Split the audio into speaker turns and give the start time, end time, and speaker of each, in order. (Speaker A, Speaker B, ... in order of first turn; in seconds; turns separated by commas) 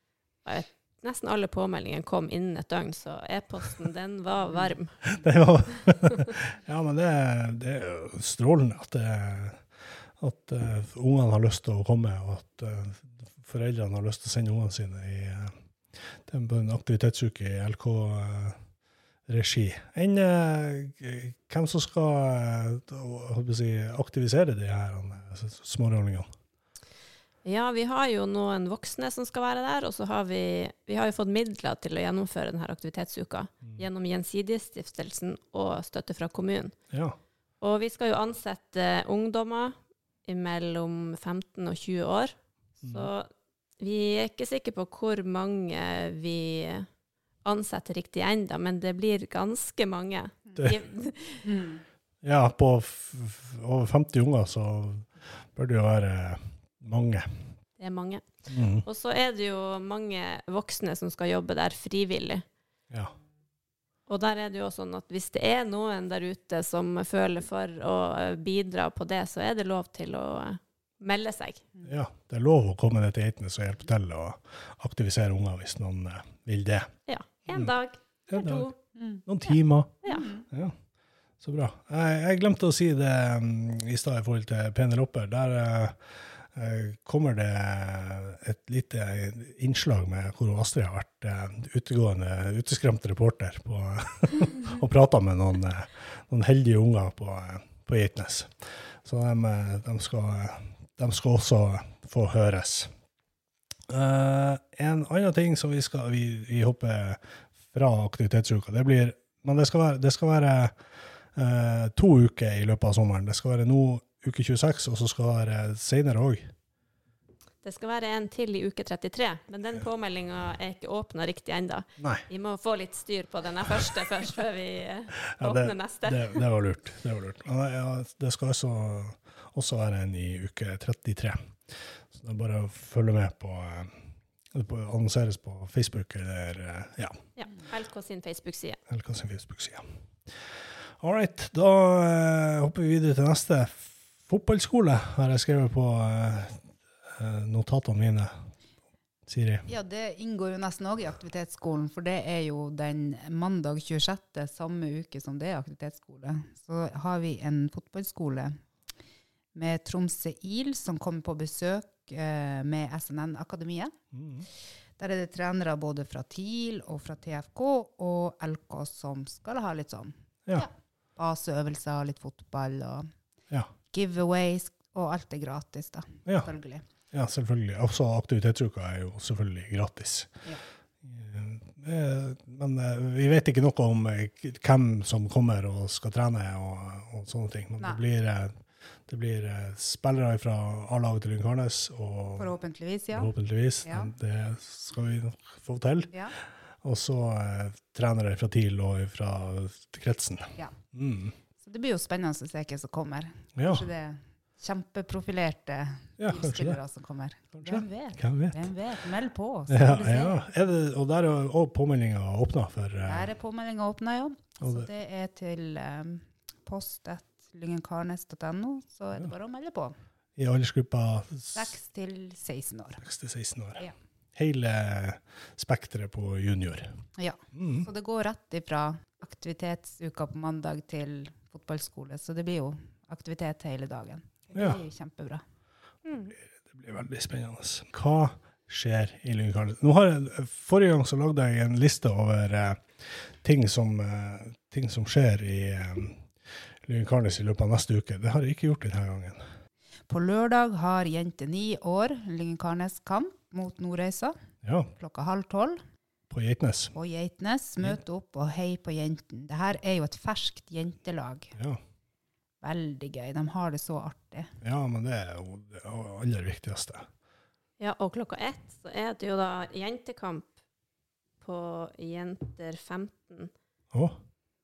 Speaker A: 0.4-5.0, Speaker B: 5.0-9.6, Speaker B: 10.2-15.5, Speaker B: 16.1-18.6, Speaker B: 19.3-26.3, Speaker A: 27.4-36.7, Speaker B: 36.9-37.2, Speaker A: 37.6-39.7, Speaker A: 40.2-43.3, Speaker B: 42.8-43.1, Speaker A: 43.8-46.9, Speaker A: 47.4-51.5, Speaker C: 51.4-51.8, Speaker B: 52.2-57.2, Speaker A: 57.8-58.2, Speaker B: 58.5-58.9, Speaker A: 58.8-62.4, Speaker A: 64.1-71.6, Speaker B: 71.8-76.9, Speaker A: 77.1-78.7, Speaker B: 78.3-78.7, Speaker C: 79.0-79.2, Speaker B: 79.2-80.7, Speaker A: 79.5-80.2, Speaker C: 80.0-80.5, Speaker B: 81.4-102.9, Speaker B: 103.9-110.7, Speaker B: 111.3-116.5, Speaker A: 117.6-126.4, Speaker B: 122.0-122.2, Speaker B: 125.3-131.5, Speaker B: 132.1-133.9, Speaker B: 134.5-137.2, Speaker A: 137.4-138.8, Speaker B: 138.9-139.8, Speaker B: 141.0-148.3, Speaker B: 149.3-149.7, Speaker C: 149.7-158.6, Speaker C: 159.5-163.9, Speaker B: 164.1-164.5, Speaker C: 165.0-173.1, Speaker C: 173.9-176.8, Speaker B: 177.1-180.4, Speaker B: 181.0-192.6, Speaker C: 192.4-193.3, Speaker B: 193.1-196.1, Speaker C: 193.8-194.1, Speaker B: 196.8-201.3, Speaker C: 201.6-210.4, Speaker B: 203.6-203.9, Speaker B: 206.2-206.8, Speaker B: 207.5-208.7, Speaker B: 209.7-213.3, Speaker C: 213.0-219.9, Speaker B: 214.6-214.9, Speaker B: 220.4-221.8, Speaker C: 221.5-223.0, Speaker B: 223.0-226.9, Speaker C: 227.2-235.4, Speaker B: 227.5-227.9, Speaker B: 234.5-234.8, Speaker A: 236.0-236.3, Speaker B: 236.4-246.2, Speaker B: 246.8-249.4, Speaker C: 250.1-254.3, Speaker B: 254.6-254.9, Speaker C: 254.9-255.8, Speaker B: 256.3-256.9, Speaker C: 256.9-261.5, Speaker C: 262.6-264.5, Speaker B: 264.6-267.1, Speaker A: 267.8-270.5, Speaker A: 271.4-273.5, Speaker B: 273.9-274.2